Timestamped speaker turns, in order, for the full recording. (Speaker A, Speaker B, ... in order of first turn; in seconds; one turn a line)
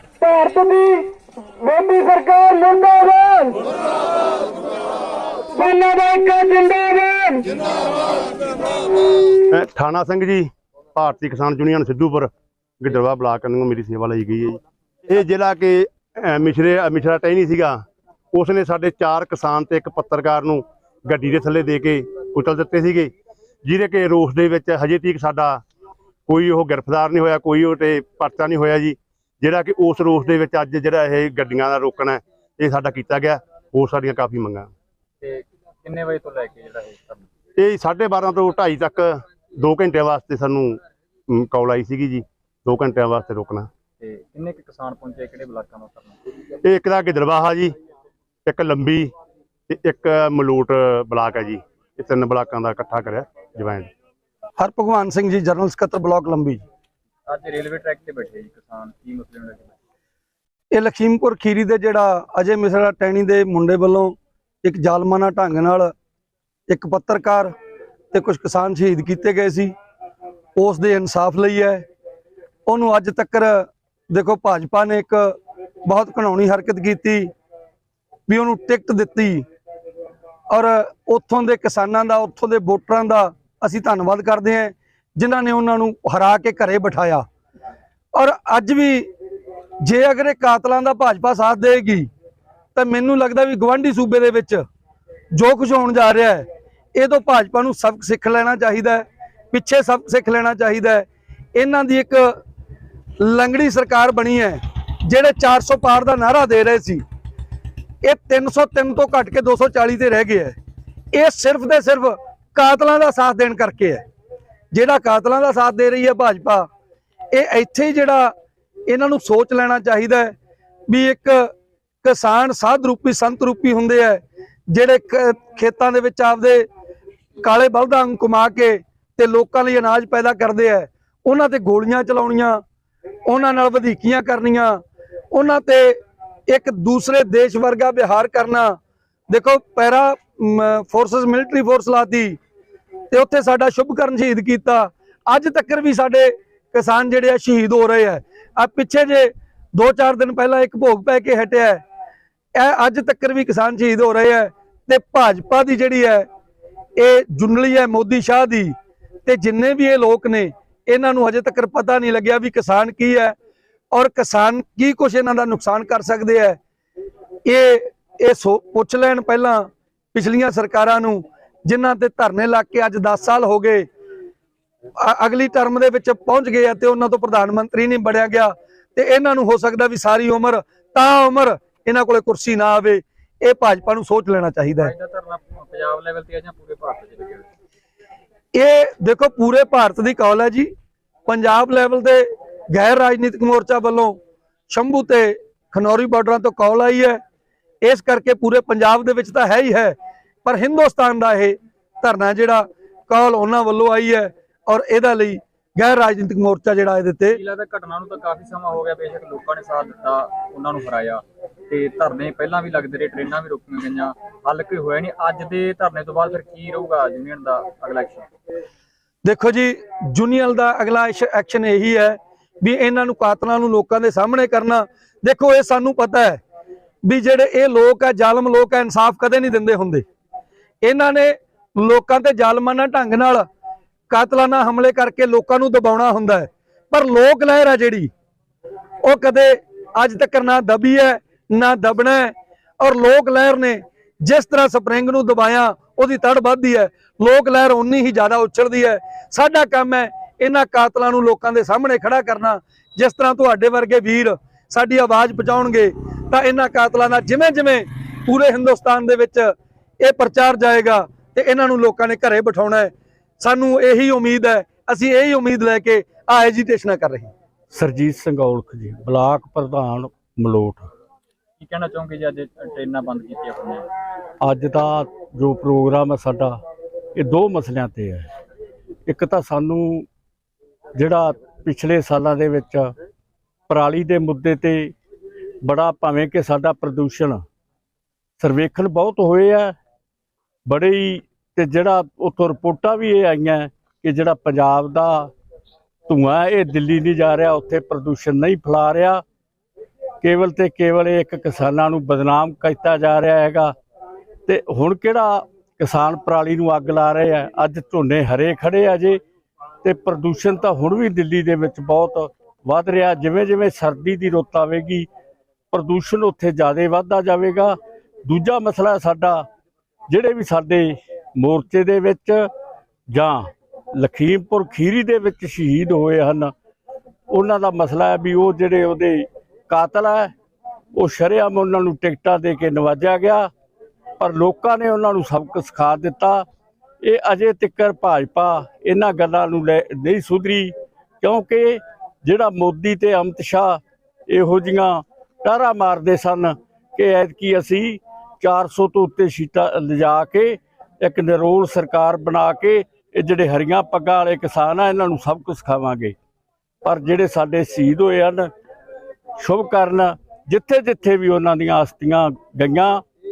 Speaker A: 0.2-3.6
Speaker A: 5.5-7.5
Speaker B: 9.5-17.8
Speaker B: 18.3-23.1
Speaker B: 23.6-25.6
Speaker B: 26.3-34.7
Speaker C: 35.2-37.2
Speaker B: 37.6-40.8
Speaker B: 41.3-43.7
Speaker C: 44.0-46.2
Speaker B: 46.6-47.7
Speaker B: 48.5-49.1
Speaker B: 49.7-53.9
Speaker D: 54.6-56.6
Speaker C: 57.3-59.7
Speaker D: 60.7-65.9
Speaker D: 66.7-67.5
Speaker D: 68.1-69.7
Speaker D: 70.5-71.8
Speaker D: 72.7-75.3
Speaker D: 75.8-77.3
Speaker D: 78.3-79.4
Speaker D: 80.5-87.2
Speaker D: 88.2-89.1
Speaker D: 89.8-92.1
Speaker D: 92.7-94.6
Speaker D: 95.3-102.3
Speaker D: 103.2-107.0
Speaker D: 108.0-110.5
Speaker D: 111.1-114.0
Speaker D: 114.7-116.7
Speaker D: 117.3-118.3
Speaker D: 118.9-120.3
Speaker D: 120.9-121.5
Speaker D: 122.0-126.7
Speaker D: 127.4-132.6
Speaker D: 133.3-134.8
Speaker D: 135.3-138.8
Speaker D: 139.3-142.4
Speaker D: 143.1-151.8
Speaker D: 152.6-156.2
Speaker D: 157.0-158.7
Speaker D: 159.2-163.3
Speaker D: 163.9-166.6
Speaker D: 167.4-173.8
Speaker D: 175.0-184.9
Speaker C: 184.8-187.5
Speaker D: 188.5-190.7
Speaker D: 191.3-194.2
Speaker D: 194.7-197.2
Speaker D: 197.8-207.4
Speaker C: 207.3-218.3
Speaker D: 219.2-226.4
Speaker D: 227.0-230.0
Speaker D: 230.8-233.4
Speaker D: 234.1-238.1
Speaker D: 239.0-267.3
Speaker E: 267.7-270.9
Speaker C: 271.6-273.9
Speaker E: 274.4-276.6
Speaker E: 277.1-278.3
Speaker E: 279.1-280.1
Speaker E: 281.0-282.9
Speaker E: 283.7-284.9
Speaker E: 285.6-287.4
Speaker E: 288.4-289.7
Speaker E: 290.7-295.3
Speaker E: 296.1-299.2
Speaker E: 300.2-303.7
Speaker E: 304.4-309.2
Speaker E: 309.8-315.1
Speaker E: 315.7-319.4
Speaker E: 320.1-322.4
Speaker E: 323.1-326.5
Speaker E: 327.3-330.3
Speaker E: 330.9-333.5
Speaker E: 334.2-336.4
Speaker E: 337.0-356.1
Speaker E: 356.8-358.5
Speaker E: 359.4-363.0